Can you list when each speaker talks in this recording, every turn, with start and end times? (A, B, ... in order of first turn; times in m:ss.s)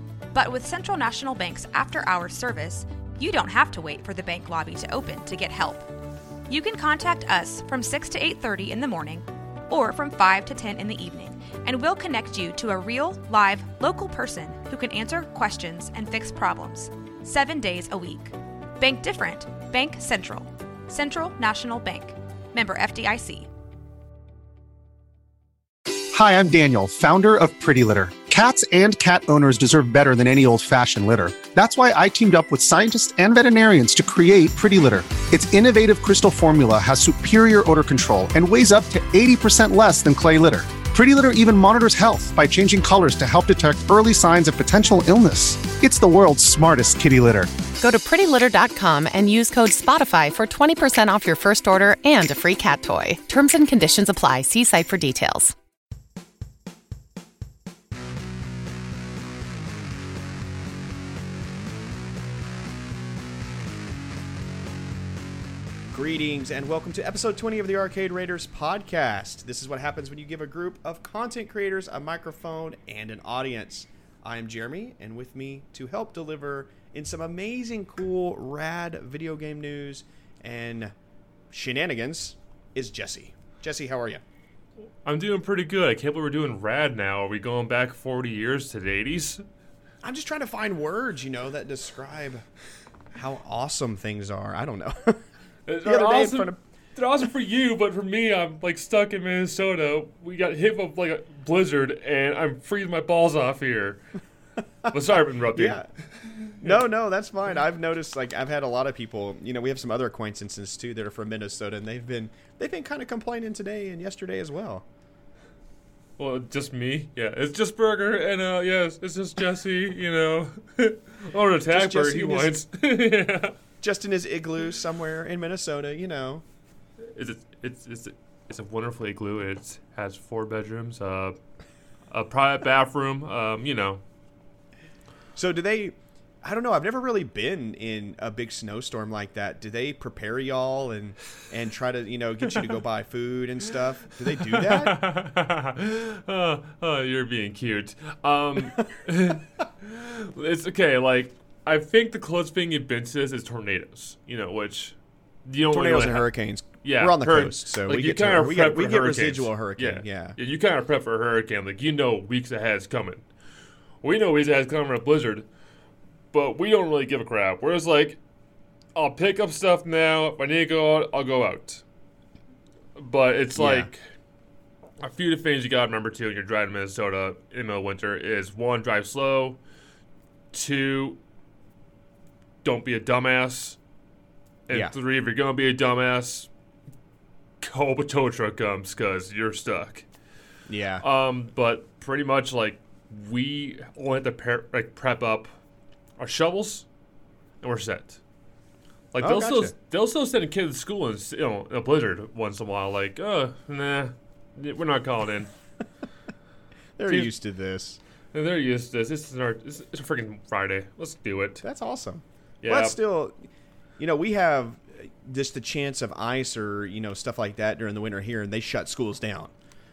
0:00.3-0:05.9 A
0:06.5-0:23.5 A
0:26.1-0:47.5 B
0:47.8-0:55.5 C
1:05.9-1:20.9 D
1:21.5-1:24.2 D
1:25.0-1:29.4 E
1:30.0-1:32.4 D
1:33.1-1:35.2 D
1:35.7-1:44.0 E
1:35.8-1:36.6 D
1:44.9-1:46.8 E
1:45.5-1:45.9 D
1:46.6-1:54.8 D
1:56.2-2:03.5 E
2:01.7-2:02.6 D
2:03.8-2:06.4 D
2:07.1-2:11.4 E
2:12.1-2:14.0 E
2:15.4-2:25.0 D
2:24.4-2:43.2 E
2:35.7-2:40.4 D
2:44.0-2:45.4 E
2:46.3-2:48.2 E
2:48.9-2:51.8 E
2:53.0-2:54.1 E
2:53.6-2:53.9 D
2:55.0-2:59.6 E
3:00.5-3:01.2 E
3:02.6-3:03.8 E
3:04.7-3:06.5 E
3:07.6-3:10.0 E
3:10.7-3:11.0 D
3:11.0-3:15.5 E
3:16.2-3:16.8 E
3:17.6-3:18.2 E
3:19.1-3:25.5 E
3:19.2-3:19.7 D
3:27.0-3:28.0 D
3:28.3-3:31.6 E
3:31.6-3:33.4 D
3:32.6-3:33.0 E
3:34.0-3:39.5 D